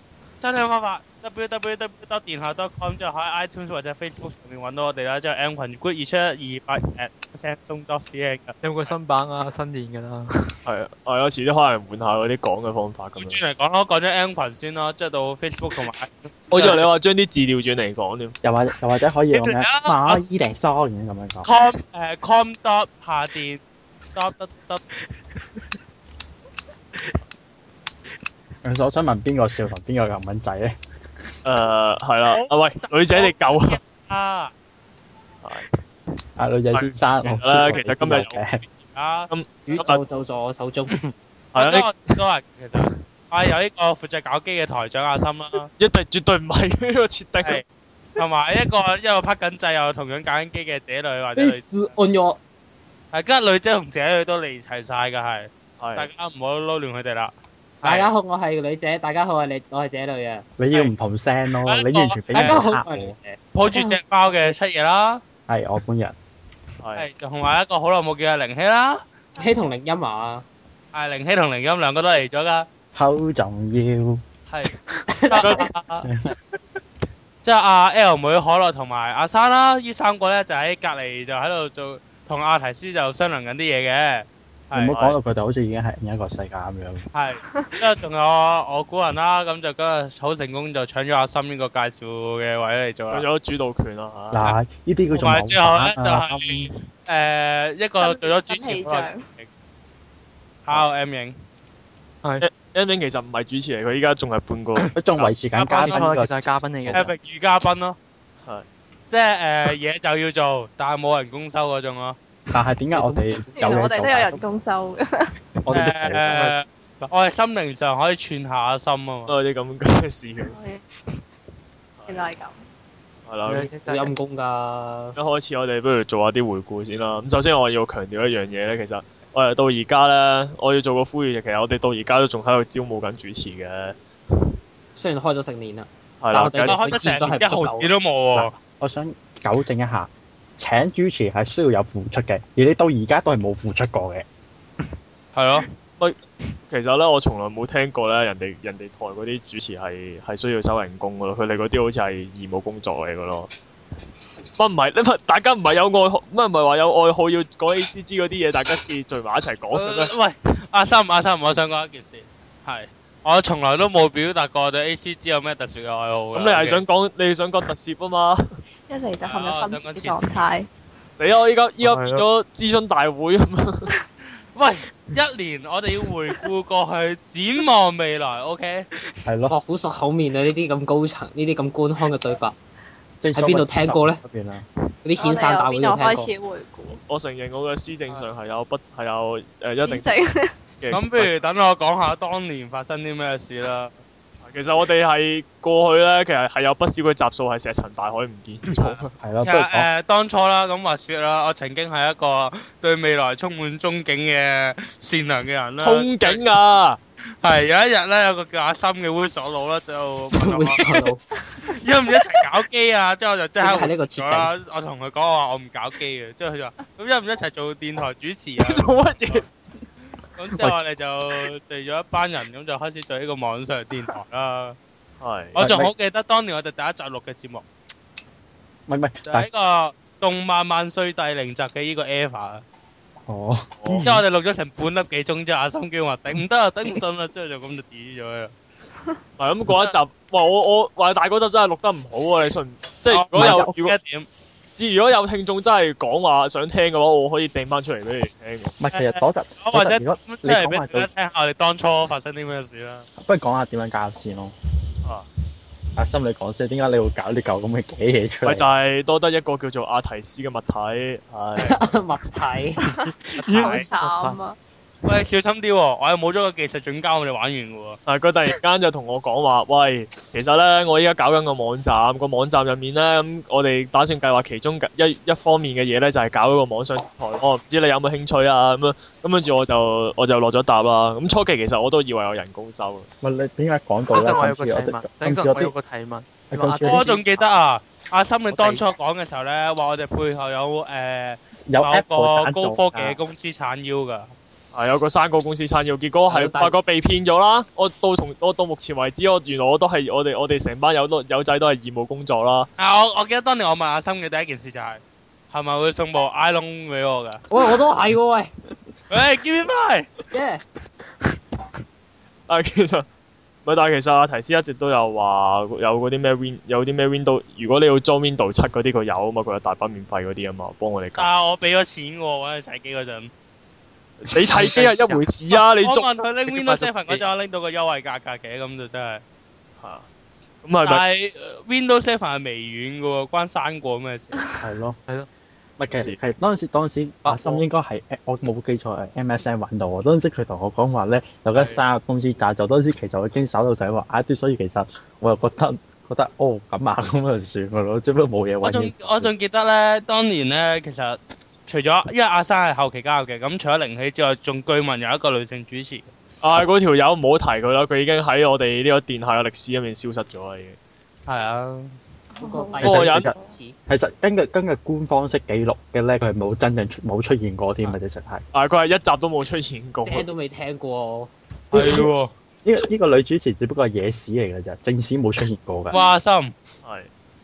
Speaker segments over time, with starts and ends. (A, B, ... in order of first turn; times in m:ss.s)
0:00.4-0:08.6 A
0:08.6-0:10.5 B
0:10.6-0:13.4 C
0:13.2-0:16.9 A
0:16.5-0:18.4 C
0:18.4-0:21.5 D
0:19.3-0:20.2 A
0:21.4-0:23.6 A
0:24.2-0:24.8 A
0:28.6-0:30.8 D
0:31.4-0:33.8 C
0:32.3-0:34.5 A
0:35.4-0:35.8 C
0:36.4-0:38.6 D
0:36.7-0:38.4 C
0:38.7-0:39.3 A
0:39.3-0:40.0 C
0:39.7-0:41.0 E
0:41.5-0:45.7 A
0:41.6-0:42.2 C
0:45.8-0:47.6 C
0:48.2-0:51.9 A
0:51.4-0:52.4 E
0:53.1-0:58.1 A
0:55.8-0:56.1 C
0:57.8-1:00.4 E
1:00.6-1:03.2 D
1:01.5-1:02.6 A
1:02.3-1:04.0 E
1:03.5-1:05.2 A
1:05.5-1:06.2 D
1:06.8-1:07.1 C
1:07.0-1:09.0 A
1:09.4-1:09.7 F
1:09.4-1:10.4 E
1:10.9-1:12.7 A
1:13.0-1:14.2 D
1:14.5-1:14.7 A
1:15.1-1:15.7 E
1:15.3-1:16.1 A
1:15.4-1:15.7 C
1:17.4-1:25.0 A
1:24.7-1:27.1 D
1:24.9-1:25.2 C
1:27.1-1:33.3 A
1:27.4-1:27.8 F
1:33.1-1:34.5 C
1:34.3-1:36.7 D
1:35.1-1:39.5 A
1:38.0-1:39.3 F
1:40.7-1:41.4 A
1:42.4-1:45.4 C
1:45.0-1:47.1 D
1:45.6-1:47.2 B
1:45.6-1:46.1 A
1:46.9-1:48.0 A
1:49.1-1:52.2 A
1:52.5-1:54.4 D
1:52.9-1:53.9 B
1:53.6-1:55.3 F
1:55.7-1:56.4 D
1:55.7-1:59.3 A
1:56.3-1:56.6 B
1:59.3-2:00.6 C
2:00.4-2:00.8 F
2:02.0-2:02.3 C
2:02.1-2:02.6 F
2:03.3-2:03.7 C
2:03.5-2:04.1 B
2:03.8-2:05.2 E
2:05.2-2:14.0 C
2:15.0-2:18.5 E
2:16.2-2:17.0 C
2:16.6-2:18.5 A
2:18.6-2:24.3 D
2:25.3-2:25.7 A
2:26.0-2:33.5 C
2:34.6-2:40.1 C
2:39.7-2:46.8 A
2:46.4-2:48.6 C
2:48.9-2:50.7 F
2:49.2-2:50.4 A
2:51.2-2:53.9 C
2:51.8-2:52.3 B
2:54.5-2:58.9 A
2:59.2-2:59.5 D
2:59.5-3:02.6 E
3:03.2-3:04.6 D
3:03.3-3:04.2 E
3:05.0-3:06.3 E
3:05.2-3:07.0 F
3:07.1-3:10.2 C
3:09.8-3:10.6 F
3:10.8-3:11.4 C
3:10.9-3:13.9 A
3:14.4-3:19.1 C
3:18.8-3:26.4 A
3:19.2-3:19.9 D
3:25.8-3:27.0 C
3:27.4-3:31.1 A
3:30.4-3:31.2 E
3:31.7-3:39.4 A
3:33.6-3:34.5 E
3:38.6-3:39.5 C
3:40.4-3:44.8 A
3:45.2-3:45.6 C
3:45.6-3:47.6 A
3:45.6-3:45.9 D
3:48.9-3:49.5 D
3:49.3-3:52.6 A
3:53.3-3:54.2 D
3:53.8-3:54.1 C
3:54.0-3:58.5 A
3:59.4-4:04.0 C
4:03.1-4:04.3 A
4:03.3-4:03.8 D
4:04.8-4:08.8 C
4:08.8-4:11.1 D
4:08.9-4:13.1 A
4:13.2-4:14.5 D
4:16.0-4:18.7 D
4:18.4-4:21.8 C
4:21.6-4:22.8 E
4:22.9-4:24.6 F
4:23.0-4:24.4 B
4:23.5-4:23.9 A
4:25.1-4:28.0 A
4:28.1-4:43.1 C
4:43.2-4:45.8 D
4:44.1-4:47.4 B
4:46.5-4:47.1 D
4:46.8-4:54.3 A
4:48.5-4:48.9 B
4:51.7-4:53.2 D
4:54.7-5:02.7 C
4:56.3-4:56.8 E
5:02.8-5:07.4 A
5:07.5-5:08.5 E
5:09.1-5:10.1 A
5:10.3-5:10.6 E
5:12.5-5:13.1 C
5:13.6-5:21.3 C
5:21.2-5:23.3 A
5:24.3-5:26.1 C
5:24.3-5:24.6 D
5:24.7-5:25.1 B
5:25.6-5:29.2 A
5:26.5-5:27.3 B
5:29.8-5:30.1 C
5:30.6-5:31.0 C
5:30.8-5:34.4 A
5:34.6-5:35.0 D
5:35.8-5:49.3 D
5:36.0-5:36.2 C
5:37.2-5:37.6 B
5:48.6-5:56.1 A
5:56.4-6:00.8 C
6:01.3-6:02.0 A
6:02.4-6:02.8 F
6:02.4-6:03.8 E
6:02.8-6:03.3 D
6:02.8-6:03.3 C
6:03.9-6:08.4 D
6:08.5-6:10.3 C
6:10.0-6:11.3 E
6:11.7-6:12.1 D
6:11.7-6:12.3 A
6:12.6-6:16.1 D
6:15.9-6:16.5 A
6:16.8-6:17.1 C